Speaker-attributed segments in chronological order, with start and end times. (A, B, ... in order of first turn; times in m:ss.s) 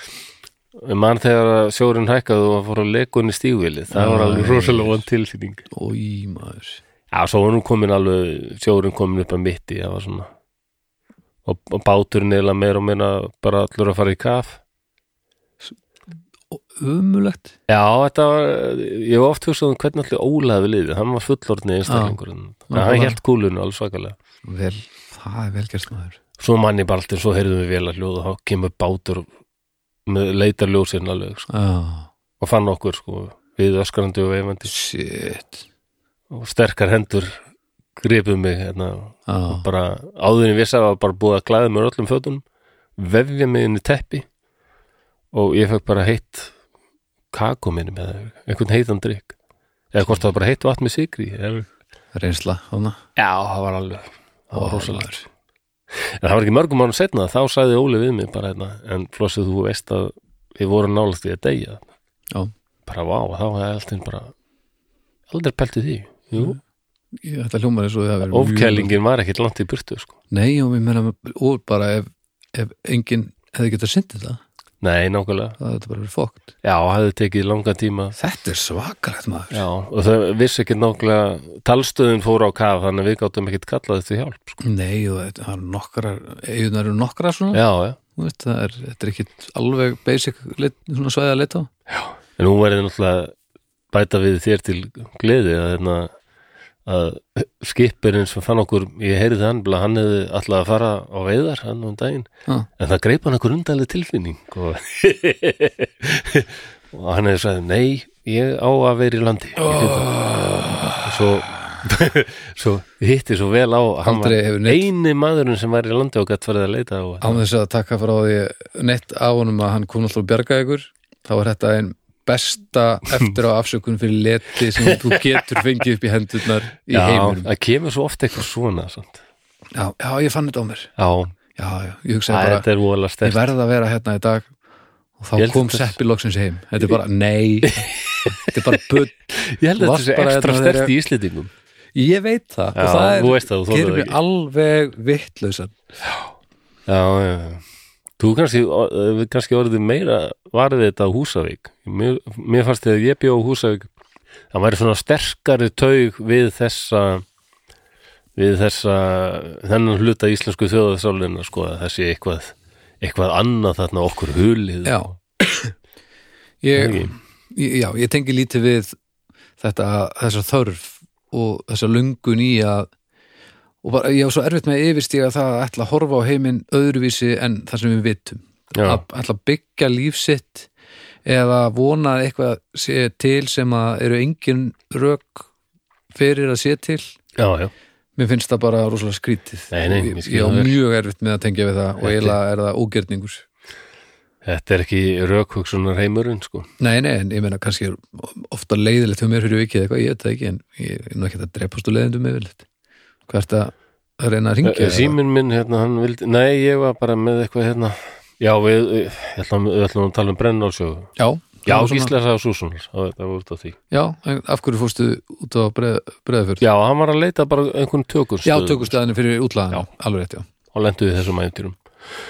0:00.8-0:05.6 A
0:03.9-0:05.0 B
0:05.7-0:06.8 B
0:07.1-0:10.3 A
0:11.4-0:14.6 A
0:16.5-0:17.5 B
0:17.7-0:24.2 A
0:21.8-0:22.2 B
0:22.7-0:23.2 B
0:24.4-0:26.2 B
0:26.4-0:29.3 A
0:30.0-0:31.5 A
0:31.5-0:32.1 B
0:32.4-0:34.7 A
0:34.6-0:35.6 B
0:36.3-0:37.4 A
0:38.0-0:42.4 A
0:39.3-0:39.6 B
0:43.0-0:44.2 A
0:45.3-0:46.5 A
0:47.3-0:49.3 A
0:49.9-0:51.7 A
0:52.1-0:53.0 B
0:53.2-0:55.1 A
0:54.5-0:55.2 B
0:55.9-1:01.9 A
1:02.8-1:04.3 A
1:05.3-1:06.6 A
1:07.2-1:08.9 B
1:08.3-1:10.1 A
1:10.3-1:14.4 B
1:14.8-1:15.6 A
1:15.6-1:16.5 B
1:16.6-1:18.2 A
1:18.2-1:19.6 B
1:19.5-1:24.6 A
1:24.6-1:27.6 B
1:27.5-1:28.0 A
1:28.2-1:31.7 B
1:32.4-1:33.3 A
1:33.9-1:36.1 A
1:36.8-1:50.2 A
1:49.6-1:51.0 B
1:51.0-1:57.4 A
1:54.0-1:54.8 B
1:57.2-2:07.5 B
2:04.9-2:05.1 A
2:06.9-2:09.2 A
2:09.7-2:10.9 B
2:11.0-2:11.3 A
2:11.5-2:12.6 B
2:12.3-2:13.4 A
2:13.2-2:14.5 B
2:15.2-2:19.1 B
2:15.4-2:16.0 A
2:17.6-2:18.5 A
2:19.3-2:21.5 A
2:19.8-2:20.9 B
2:21.9-2:25.7 B
2:22.7-2:24.2 A
2:26.9-2:27.6 A
2:28.2-2:33.9 A
2:34.5-2:37.2 A
2:38.4-2:45.1 A
2:44.8-2:45.7 B
2:46.6-2:48.9 B
2:46.8-2:47.1 A
2:49.6-2:52.9 B
2:53.8-3:00.7 B
2:58.7-2:59.0 A
3:01.2-3:05.5 B
3:06.1-3:07.0 B
3:07.4-3:07.7 A
3:08.2-3:13.4 B
3:09.7-3:10.8 A
3:12.0-3:12.4 A
3:14.4-3:16.7 A
3:16.8-3:22.6 B
3:23.3-3:25.2 B
3:24.6-3:31.1 A
3:31.2-3:32.1 B
3:31.6-3:33.8 A
3:33.9-3:36.6 B
3:36.6-3:38.9 A
3:38.4-3:40.4 B
3:40.7-3:41.8 A